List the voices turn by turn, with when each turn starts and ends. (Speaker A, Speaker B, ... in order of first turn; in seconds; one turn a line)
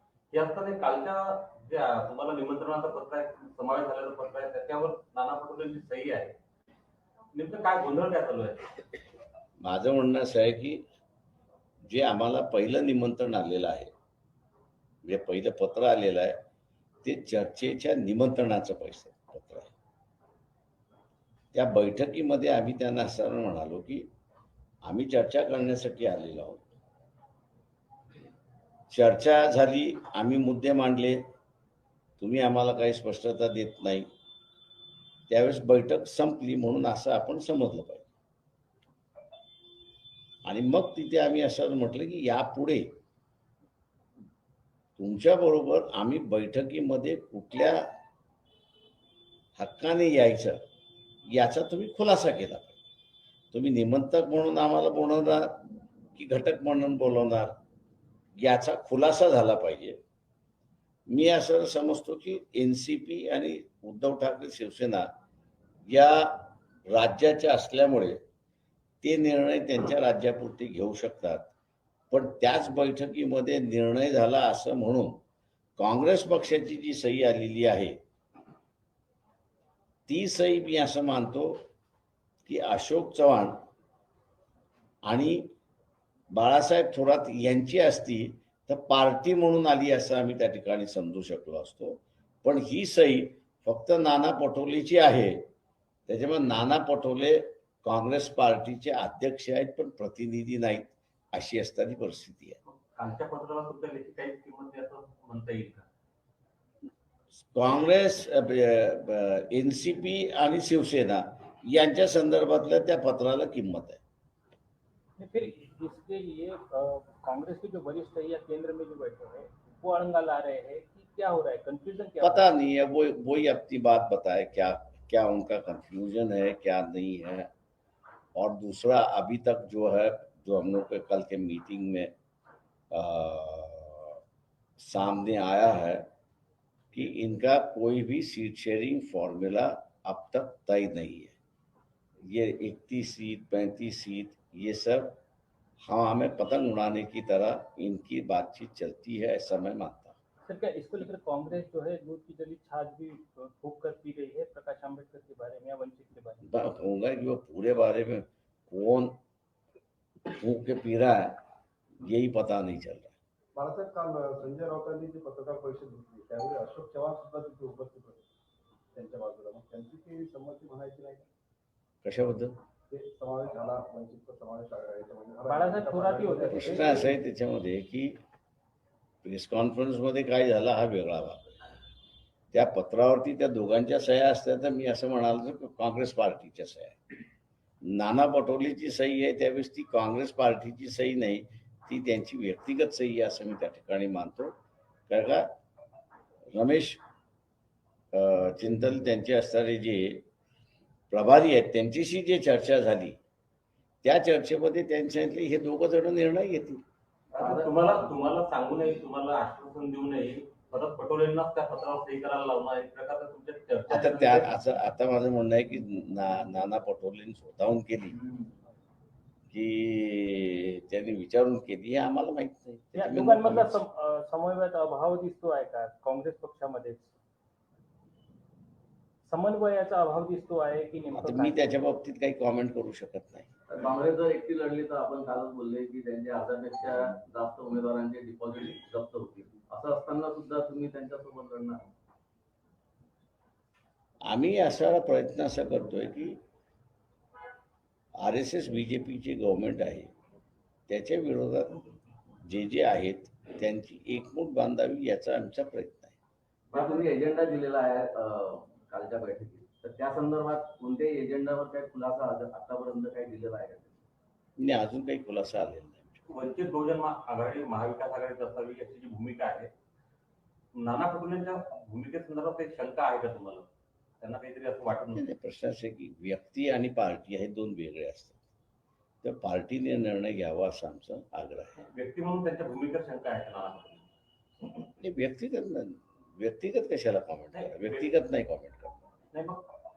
Speaker A: 0.3-6.3
Speaker A: 7.3-8.7
Speaker B: 9.6-10.8
Speaker B: 11.9-13.9
Speaker B: 15.0-16.4
Speaker B: 17.0-19.7
Speaker B: 21.5-24.1
Speaker B: 24.8-26.7
Speaker B: 28.9-31.2
Speaker B: 32.2-34.1
Speaker B: 35.3-38.1
Speaker B: 40.4-42.8
Speaker B: 45.0-47.8
Speaker B: 49.6-50.6
Speaker B: 51.3-52.8
Speaker B: 53.5-55.6
Speaker B: 56.1-57.5
Speaker B: 58.4-60.0
Speaker B: 61.1-65.1
Speaker B: 65.9-68.2
Speaker B: 69.0-71.5
Speaker B: 72.1-75.2
Speaker B: 75.8-78.0
Speaker B: 80.1-81.6
Speaker B: 82.5-83.6
Speaker B: 85.1-85.5
Speaker B: 86.3-95.4
Speaker B: 96.1-102.6
Speaker A: 102.9-105.8
Speaker B: 107.4-114.0
Speaker C: 115.2-122.5
Speaker B: 122.2-127.5
Speaker B: 128.3-132.1
Speaker B: 132.9-134.2
Speaker B: 134.8-136.1
Speaker B: 136.9-141.3
Speaker B: 142.2-145.2
Speaker B: 145.8-150.1
Speaker C: 150.4-156.5
Speaker B: 156.5-159.2
Speaker B: 160.2-161.4
Speaker B: 162.0-163.1
Speaker D: 163.5-168.3
Speaker D: 168.9-171.3
Speaker B: 172.0-172.5
Speaker D: 172.9-177.1
Speaker C: 175.5-177.1
Speaker B: 176.5-178.2
Speaker B: 179.2-181.6
Speaker B: 182.5-187.0
Speaker B: 187.9-194.5
Speaker B: 195.1-195.4
Speaker B: 196.5-197.0
Speaker B: 198.1-200.2
Speaker B: 201.1-203.2
Speaker B: 204.0-206.8
Speaker A: 207.3-214.5
Speaker E: 207.4-208.1
Speaker B: 213.9-218.2
Speaker B: 219.5-223.8
Speaker C: 222.9-227.1
Speaker C: 229.2-231.7
Speaker B: 231.1-233.5
Speaker E: 233.7-241.8
Speaker B: 244.3-246.4
Speaker B: 248.2-250.1
Speaker B: 250.9-251.8
Speaker B: 252.4-256.2
Speaker A: 256.7-257.1
Speaker E: 256.7-264.0
Speaker B: 264.6-266.2
Speaker A: 266.3-269.7
Speaker A: 270.8-273.7
Speaker A: 274.2-275.2
Speaker B: 275.1-278.4
Speaker B: 279.2-281.8
Speaker A: 281.9-284.0
Speaker B: 285.0-289.0
Speaker A: 287.6-288.1
Speaker A: 289.3-289.6